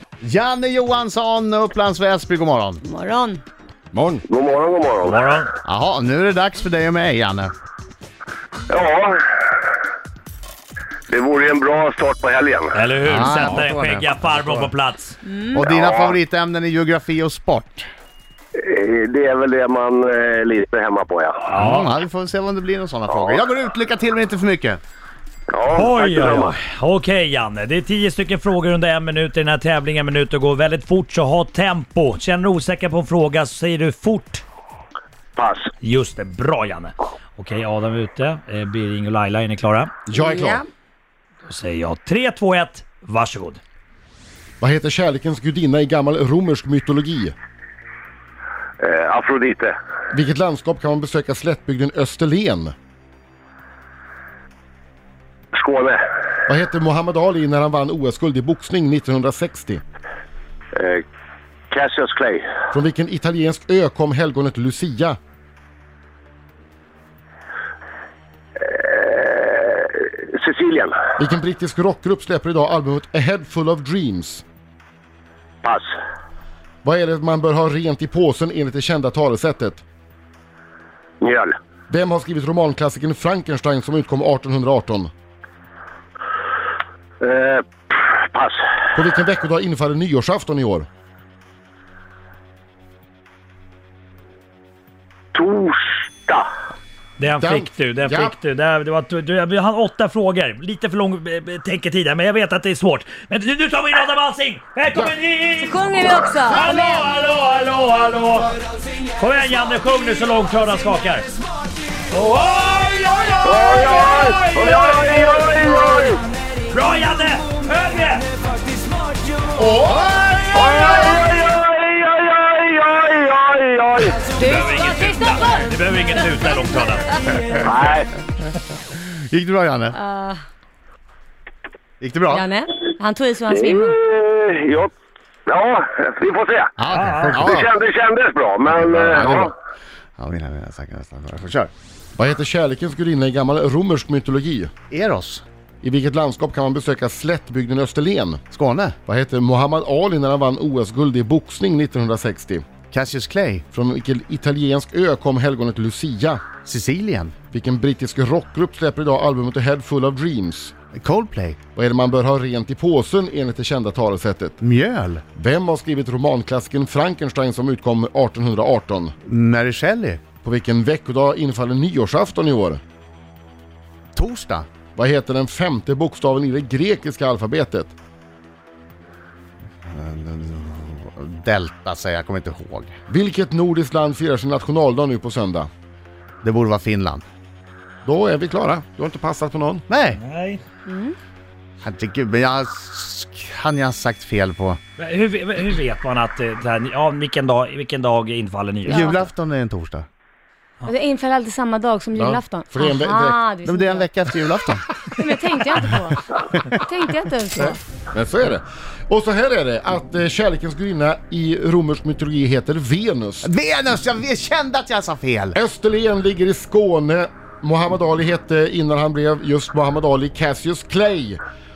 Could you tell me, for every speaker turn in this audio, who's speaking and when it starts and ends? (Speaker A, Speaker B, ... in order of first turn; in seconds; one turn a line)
Speaker A: 0.2-2.8
Speaker B: 2.8-3.4
Speaker C: 4.3-5.2
Speaker D: 5.0-5.5
Speaker A: 5.6-7.5
Speaker C: 8.7-9.6
Speaker C: 11.1-12.8
Speaker D: 12.7-15.2
Speaker A: 13.0-14.7
Speaker B: 15.2-15.6
Speaker C: 15.5-16.2
Speaker A: 15.6-17.9
Speaker C: 18.6-21.6
Speaker D: 21.5-21.9
Speaker A: 21.6-24.8
Speaker C: 23.1-23.4
Speaker C: 25.5-26.6
Speaker D: 25.7-34.4
Speaker C: 35.4-35.7
Speaker D: 35.8-40.0
Speaker E: 40.1-40.6
Speaker B: 40.2-40.6
Speaker D: 41.5-43.6
Speaker E: 44.6-47.4
Speaker C: 48.8-49.7
Speaker E: 50.1-52.7
Speaker C: 55.5-56.0
Speaker E: 56.5-59.8
Speaker C: 60.7-61.0
Speaker C: 61.7-62.4
Speaker E: 62.7-65.2
Speaker C: 68.6-70.9
Speaker E: 71.2-74.4
Speaker C: 75.6-75.9
Speaker E: 76.8-79.8
Speaker C: 81.2-81.5
Speaker E: 81.9-85.1
Speaker C: 87.2-88.6
Speaker E: 89.0-90.9
Speaker C: 95.3-96.5
Speaker D: 97.2-108.6
Speaker E: 97.4-98.3
Speaker B: 105.6-107.1
Speaker D: 109.2-111.3
Speaker D: 112.1-116.0
Speaker C: 113.4-116.2
Speaker D: 116.7-118.3
Speaker E: 119.6-120.0
Speaker C: 120.5-124.2
Speaker B: 124.4-125.7
Speaker D: 124.4-127.7
Speaker C: 127.6-128.1
Speaker A: 128.9-130.0
Speaker B: 129.9-130.4
Speaker A: 132.0-132.5
Speaker B: 132.3-134.0
Speaker C: 133.5-134.9
Speaker C: 135.5-136.8
Speaker A: 136.8-137.7
Speaker D: 136.9-137.6
Speaker C: 137.3-139.5
Speaker A: 138.8-139.5
Speaker A: 140.2-141.7
Speaker E: 142.2-144.7
Speaker A: 144.9-145.4
Speaker E: 145.8-148.4
Speaker A: 148.5-149.0
Speaker E: 149.1-152.7
Speaker A: 152.9-153.7
Speaker E: 153.7-156.5
Speaker A: 156.6-157.3
Speaker E: 157.5-160.7
Speaker A: 160.9-161.6
Speaker E: 161.7-164.6
Speaker A: 164.6-165.2
Speaker E: 165.3-169.2
Speaker A: 169.3-170.2
Speaker E: 170.4-172.8
Speaker A: 174.2-174.7
Speaker E: 174.9-177.9
Speaker A: 179.9-183.0
Speaker E: 183.1-185.7
Speaker A: 186.4-187.2
Speaker E: 188.0-189.9
Speaker A: 189.9-190.2
Speaker D: 190.2-190.6
Speaker B: 190.9-191.2
Speaker A: 191.8-194.8
Speaker D: 195.0-199.3
Speaker B: 198.9-199.2
Speaker A: 198.9-200.1
Speaker B: 200.9-204.1
Speaker E: 202.2-203.4
Speaker A: 203.7-204.9
Speaker B: 205.1-207.8
Speaker E: 208.1-213.5
Speaker A: 213.4-215.6
Speaker E: 215.6-221.4